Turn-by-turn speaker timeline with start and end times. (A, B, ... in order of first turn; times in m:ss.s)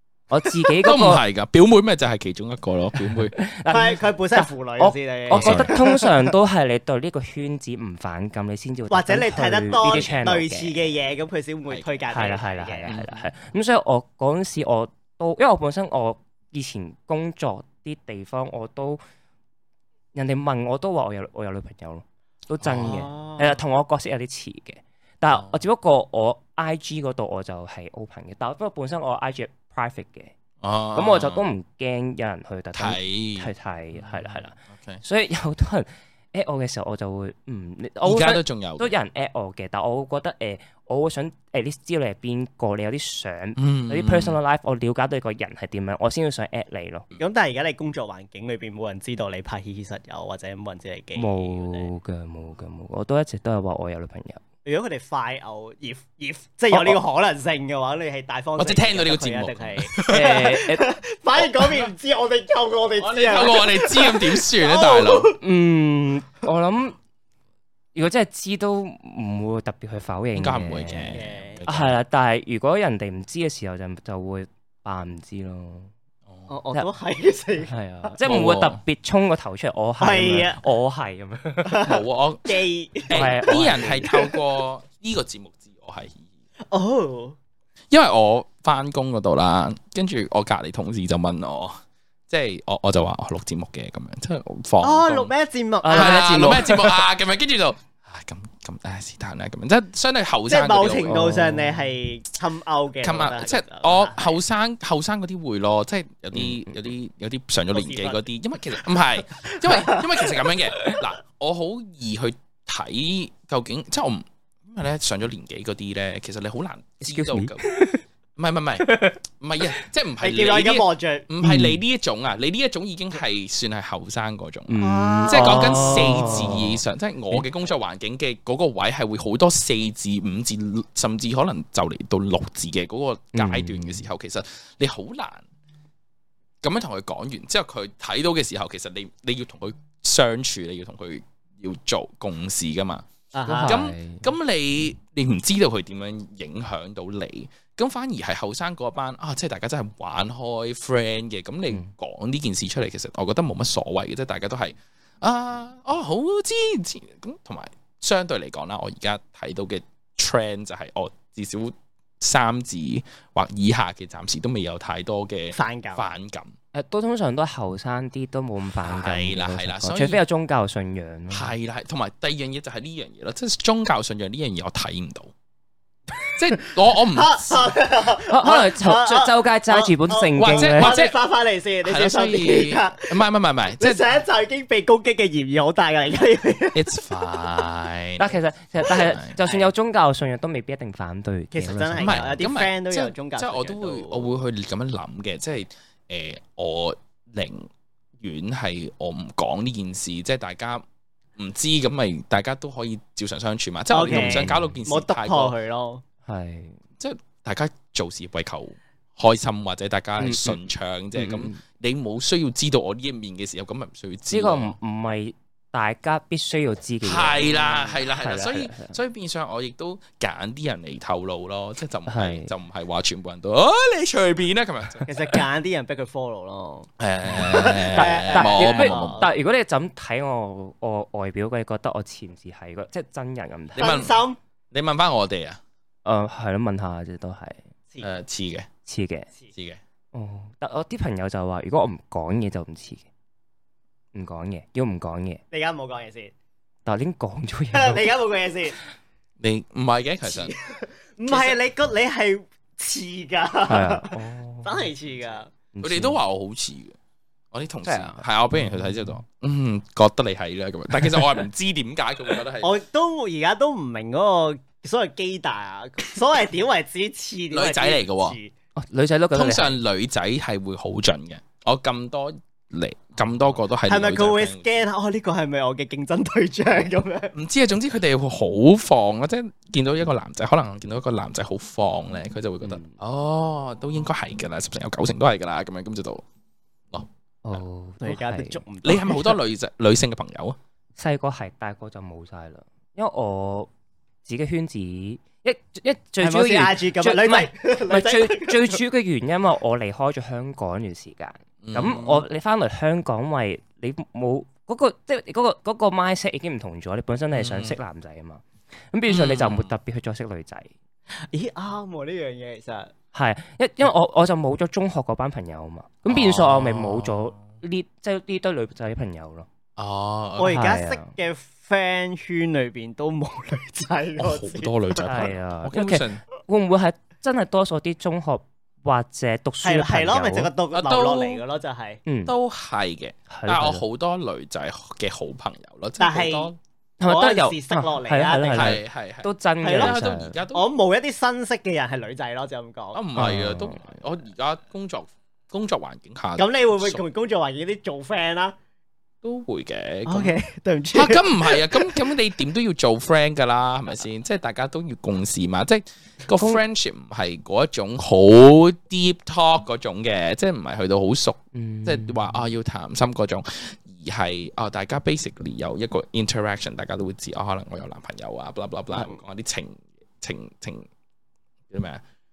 0:00.3-0:01.2 A
0:00.8-0:03.3 B
0:03.0-0:10.8 A
0:03.7-0:06.3 C
0:05.3-0:05.7 B
0:08.9-0:13.0 C
0:09.8-0:10.2 B
0:11.7-0:12.0 B
0:12.1-0:19.0 A
0:12.9-0:13.3 B
0:20.1-0:30.3 A
0:22.6-0:23.0 B
0:22.8-0:23.6 C
0:25.3-0:25.6 B
0:30.6-0:31.4 B
0:30.9-0:47.1 A
0:32.7-0:35.0 B
0:38.0-0:38.9 B
0:43.6-0:44.4 B
0:47.2-0:51.9 C
0:51.1-0:54.4 A
0:54.6-1:05.4 C
0:58.6-1:00.4 B
1:00.0-1:00.9 A
1:01.4-1:01.9 B
1:03.0-1:05.3 B
1:05.4-1:07.0 A
1:07.9-1:15.9 A
1:10.3-1:12.0 B
1:11.1-1:11.6 C
1:16.5-1:17.7 C
1:17.7-1:21.8 A
1:18.2-1:18.8 B
1:20.0-1:20.6 C
1:21.6-1:24.4 C
1:21.8-1:22.5 B
1:23.1-1:26.3 B
1:23.1-1:24.0 A
1:26.7-1:27.4 C
1:27.9-1:35.3 B
1:34.8-1:36.8 C
1:35.8-1:37.0 A
1:35.9-1:41.2 B
1:40.5-1:44.4 C
1:41.0-1:41.9 A
1:43.0-1:57.6 B
1:46.3-1:46.8 A
1:47.7-1:48.2 C
1:49.4-1:50.4 C
1:57.0-1:58.0 A
1:58.4-2:04.7 B
1:58.8-1:59.2 A
2:00.2-2:01.3 C
2:01.4-2:01.8 A
2:04.7-2:06.8 A
2:04.8-2:06.6 C
2:05.3-2:15.4 B
2:13.3-2:14.0 A
2:16.6-2:23.1 B
2:23.3-2:23.8 C
2:23.4-2:24.3 A
2:23.6-2:46.5 B
2:45.5-2:46.1 C
2:46.7-2:51.5 A
2:48.8-2:50.2 B
2:51.3-2:55.3 B
2:56.2-3:03.2 C
2:56.4-2:57.7 B
2:58.2-3:01.0 A
3:00.4-3:01.2 B
3:01.8-3:04.0 B
3:03.8-3:06.9 C
3:06.7-3:09.4 B
3:08.2-3:12.4 A
3:11.5-3:14.3 C
3:12.0-3:17.7 B
3:18.2-3:20.8 B
3:21.4-3:25.5 B
3:23.9-3:26.0 C
3:24.1-3:24.8 A
3:26.3-3:26.8 A
3:27.0-3:34.7 B
3:30.2-3:30.6 A
3:31.1-3:31.6 A
3:34.3-3:38.9 A
3:37.0-3:45.1 B
3:42.1-3:42.5 A
3:45.1-3:49.3 C
3:47.0-3:49.2 B
3:47.3-3:54.0 A
3:53.8-3:54.2 B
3:53.8-3:54.4 C
3:54.7-3:55.6 B
3:56.0-3:57.6 A
3:58.0-3:58.7 B
3:58.8-3:59.3 A
3:59.5-3:59.8 B
4:00.1-4:03.0 A
4:04.1-4:05.4 A
4:05.5-4:06.3 C
4:06.8-4:08.1 A
4:07.7-4:08.8 C
4:09.4-4:10.5 B
4:10.2-4:15.5 C
4:13.7-4:14.9 A
4:15.7-4:16.2 A
4:15.8-4:17.0 B
4:17.5-4:22.8 B
4:17.8-4:19.2 A
4:22.6-4:28.5 C
4:27.5-4:28.4 B
4:28.8-4:29.8 A
4:29.3-4:34.8 B
4:33.9-4:37.3 C
4:37.3-4:46.2 B
4:42.6-4:43.0 A
4:46.9-4:47.6 B
4:47.4-4:48.6 A
4:48.0-4:49.3 C
4:48.8-4:50.6 B
4:51.0-4:53.7 A
4:54.2-5:10.7 A
4:56.2-4:58.8 C
5:01.6-5:02.2 B
5:07.3-5:07.8 B
5:09.1-5:09.7 B
5:11.3-5:12.9 C
5:13.1-5:19.5 A
5:16.0-5:17.4 B
5:19.8-5:20.7 B
5:20.4-5:25.1 C
5:20.5-5:21.1 A
5:24.2-5:26.2 B
5:25.0-5:30.5 A
5:29.6-5:32.0 C
5:30.7-5:31.4 B
5:32.0-5:32.3 A
5:32.3-5:36.6 B
5:33.3-5:33.8 A
5:36.0-5:36.5 C
5:37.0-5:40.4 A
5:37.0-5:38.8 C
5:38.5-5:40.6 B
5:39.6-5:40.0 C
5:40.5-5:43.0 C
5:42.9-5:47.0 B
5:43.2-5:43.8 A
5:46.4-5:48.5 C
5:49.2-5:50.4 B
5:50.0-5:52.0 C
5:50.9-6:10.9 B
6:01.5-6:02.4 A
6:11.7-6:12.0 B